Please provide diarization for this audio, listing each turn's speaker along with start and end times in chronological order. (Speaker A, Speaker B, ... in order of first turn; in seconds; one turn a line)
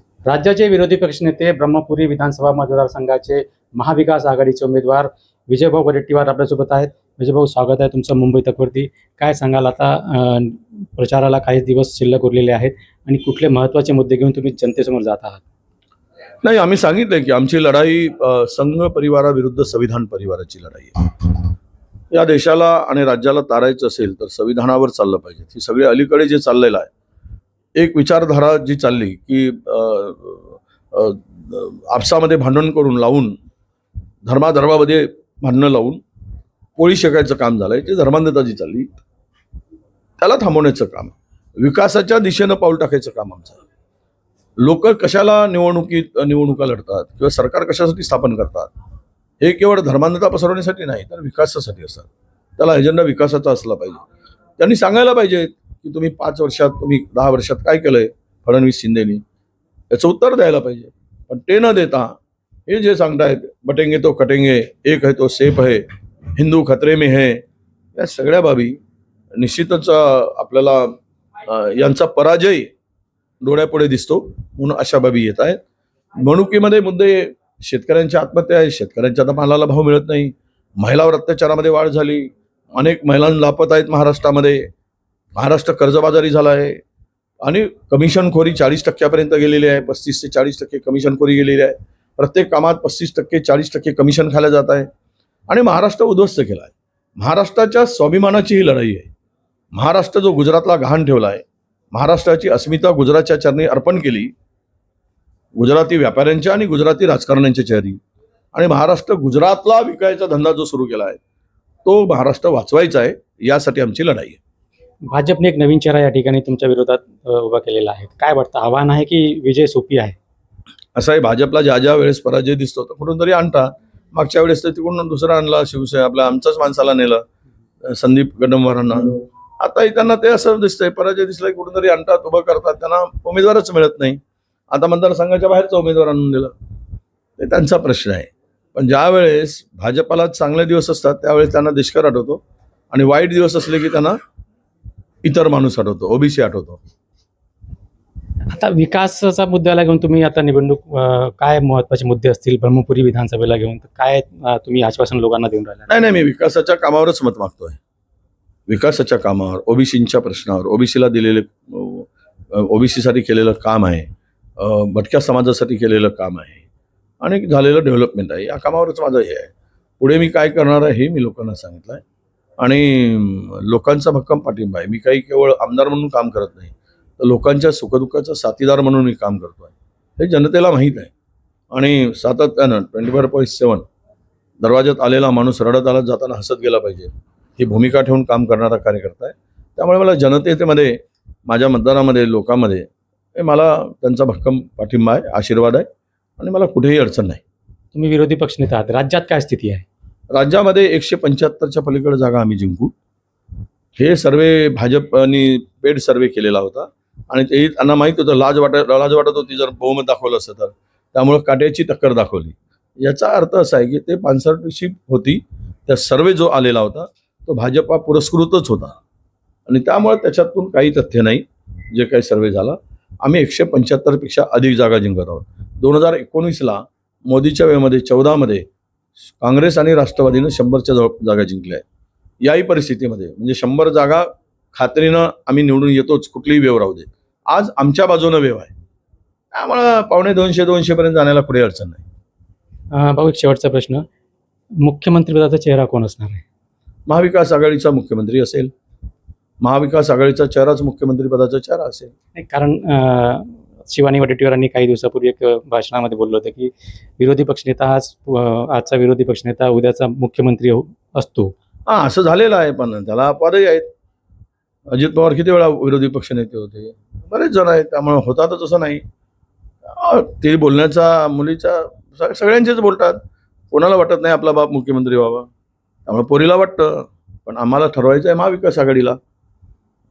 Speaker A: 0.3-15.4
Speaker B: 16.4-21.1
Speaker B: 22.1-26.9
Speaker B: 27.8-33.4
Speaker B: 34.2-36.0
Speaker B: 36.8-38.9
Speaker B: 40.2-43.6
Speaker B: 44.6-48.7
Speaker B: 49.4-54.0
Speaker B: 54.6-59.2
Speaker B: 59.9-67.4
Speaker B: 68.0-68.8
Speaker B: 69.4-72.7
Speaker B: 73.4-75.6
Speaker B: 76.2-84.7
Speaker B: 85.4-86.8
Speaker B: 87.4-94.9
Speaker B: 95.5-99.1
Speaker B: 99.7-104.3
Speaker B: 105.6-108.0
Speaker B: 108.5-111.2
Speaker B: 111.8-114.4
Speaker A: 115.1-120.2
Speaker B: 121.0-127.2
Speaker B: 127.8-134.2
Speaker B: 134.7-136.5
Speaker B: 137.4-144.2
Speaker B: 145.2-146.8
Speaker A: 148.5-155.9
Speaker B: 155.9-157.8
Speaker B: 158.7-166.6
Speaker B: 167.2-172.0
Speaker B: 172.6-181.1
Speaker B: 181.7-183.8
Speaker B: 184.6-191.0
Speaker B: 191.5-195.9
Speaker B: 196.4-197.4
Speaker A: 197.9-199.8
Speaker B: 200.3-202.9
Speaker B: 204.0-219.0
Speaker B: 219.7-228.7
Speaker B: 229.4-231.8
Speaker B: 232.4-238.7
Speaker B: 239.5-242.0
Speaker A: 242.9-244.1
Speaker A: 244.8-246.4
Speaker B: 247.1-248.7
Speaker B: 249.6-252.1
Speaker A: 252.3-261.5
Speaker B: 261.9-263.9
Speaker B: 264.9-269.0
Speaker B: 269.9-275.5
Speaker B: 276.1-279.2